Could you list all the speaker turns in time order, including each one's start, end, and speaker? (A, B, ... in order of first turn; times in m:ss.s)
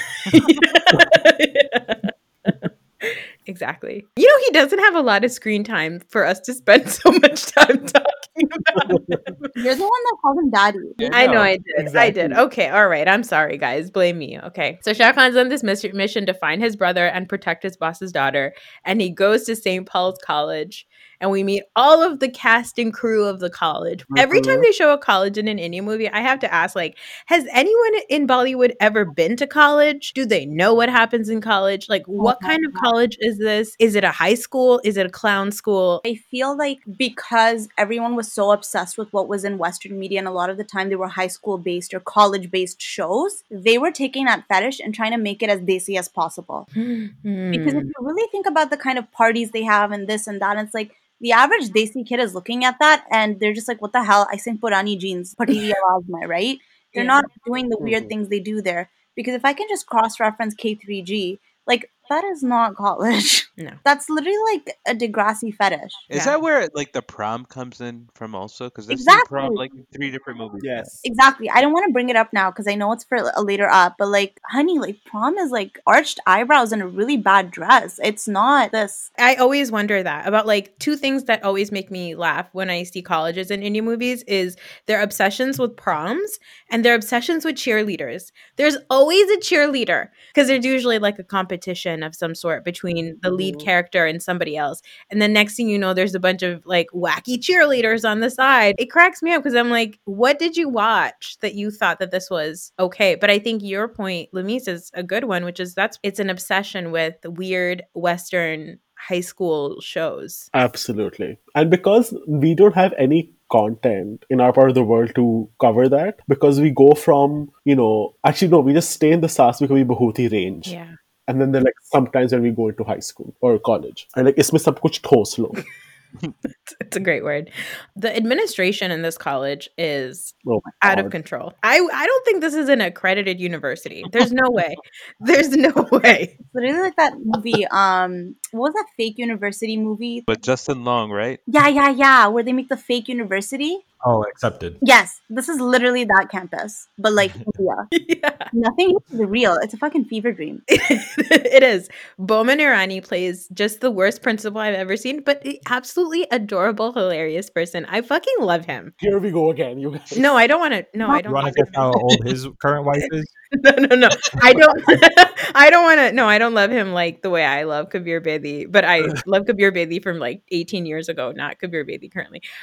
0:00.2-0:09.5 A
0:08.8-0:09.2 B
0:09.6-0:11.0 C
0:11.0-0:11.5 D
0:11.1-0:36.0 A
0:11.7-0:12.4 B
0:24.1-0:24.6 D
0:32.2-0:32.9 C
0:36.0-0:46.7 C
0:46.8-0:47.9 A
0:47.5-1:06.0 C
0:56.9-0:57.2 A
0:57.8-0:58.1 B
1:06.1-1:10.9 D
1:06.1-1:06.4 A
1:08.9-1:09.6 C
1:10.6-1:11.0 B
1:11.0-1:19.1 C
1:19.2-1:50.5 A
1:33.2-1:33.7 B
1:50.5-2:00.7 B
2:00.6-2:01.0 A
2:01.3-2:05.6 B
2:06.7-2:16.3 A
2:10.4-2:11.1 B
2:16.5-2:20.3 C
2:20.3-2:21.4 D
2:21.5-2:23.8 C
2:24.0-2:24.8 E
2:24.8-2:27.9 C
2:27.2-2:27.5 E
2:27.9-2:28.5 A
2:28.5-2:30.6 C
2:30.7-2:38.9 A
2:39.0-2:40.3 B
2:40.1-2:42.0 A
2:41.2-2:43.3 E
2:43.5-2:52.4 A